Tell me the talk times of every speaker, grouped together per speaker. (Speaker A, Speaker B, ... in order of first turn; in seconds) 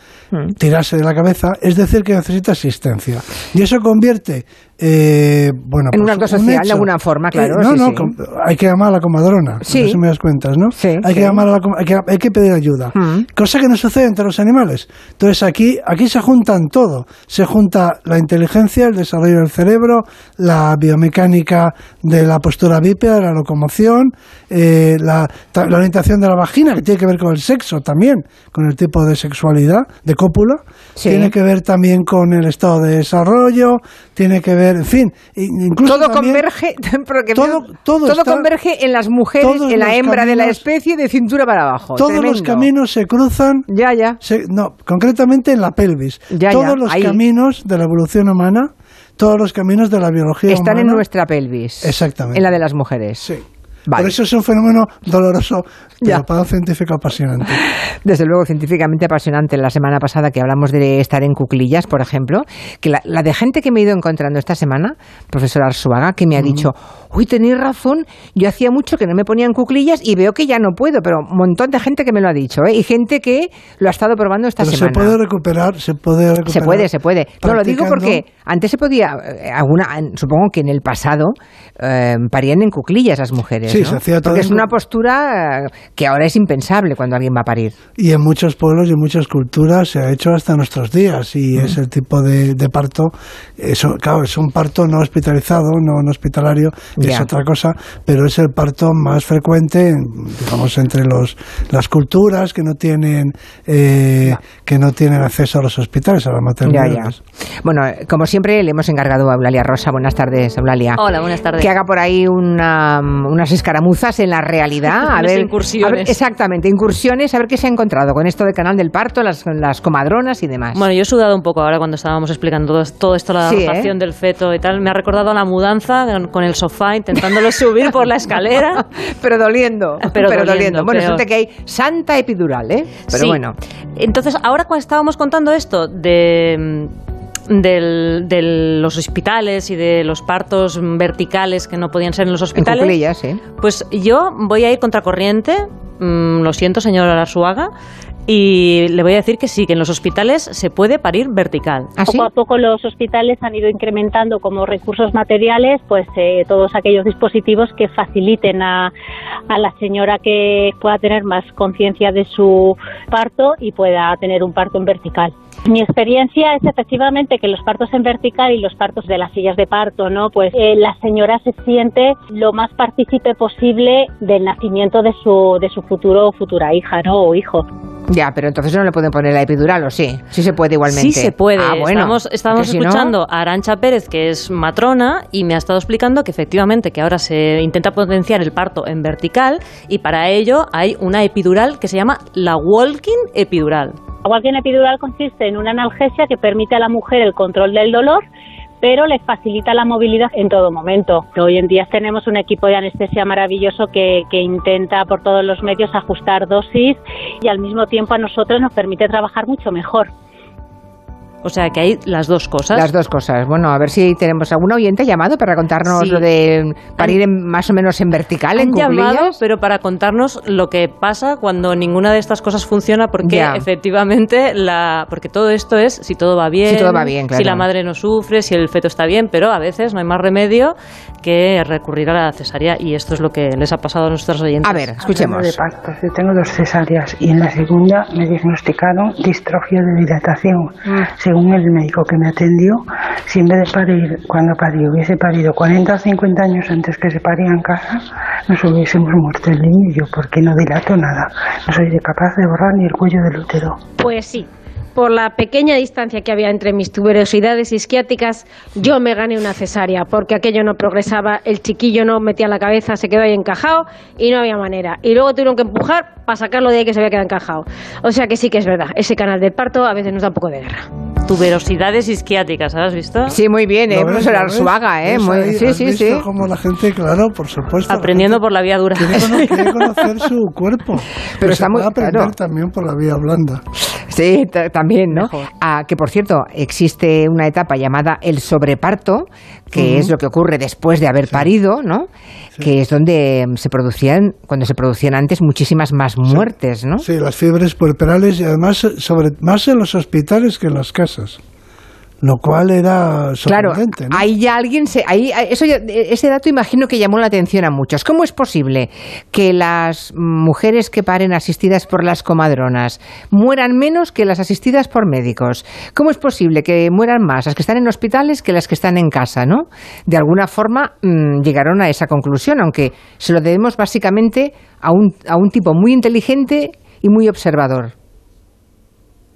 Speaker A: 0.6-36.4, 37.3-38.5, 39.4-40.6, 42.0-43.7, 44.2-51.0, 51.8-52.5, 53.9-57.6, 66.4-66.7, 74.6-78.2, 83.7-84.7, 88.0-107.2, 273.9-278.4, 278.9-283.6, 289.8-290.1, 297.0-301.4, 302.2-304.2
Speaker B: 5.9-8.1, 9.7-10.0, 10.8-11.4, 12.9-13.3, 31.0-31.3, 35.8-42.7, 43.7-44.2, 46.3-47.2, 50.5-53.3, 53.9-54.1, 57.5-75.2, 76.5-87.8, 97.0-97.3, 106.7-111.0, 111.6-120.8, 123.4-123.9, 127.2-127.6, 128.7-133.6, 142.6-143.4, 152.0-152.3, 178.1-183.1, 212.7-219.4, 223.2-223.7, 226.7-227.7, 234.6-235.6, 273.3-276.3, 281.4-282.3, 283.8-292.1, 292.6-297.1, 303.5-327.9
Speaker C: 111.0-111.7, 114.9-116.2, 120.7-128.8, 130.0-131.2, 133.1-133.4, 134.0-136.9, 137.5-143.0, 143.6-147.7, 148.3-151.9, 180.9-194.0, 211.4-212.9, 215.9-216.2, 218.6-234.9, 271.3-273.4, 277.9-279.8, 285.1-285.5
Speaker D: 152.1-158.9, 159.5-177.7, 194.2-198.2, 198.8-210.1
Speaker E: 235.0-253.8
Speaker F: 254.0-270.9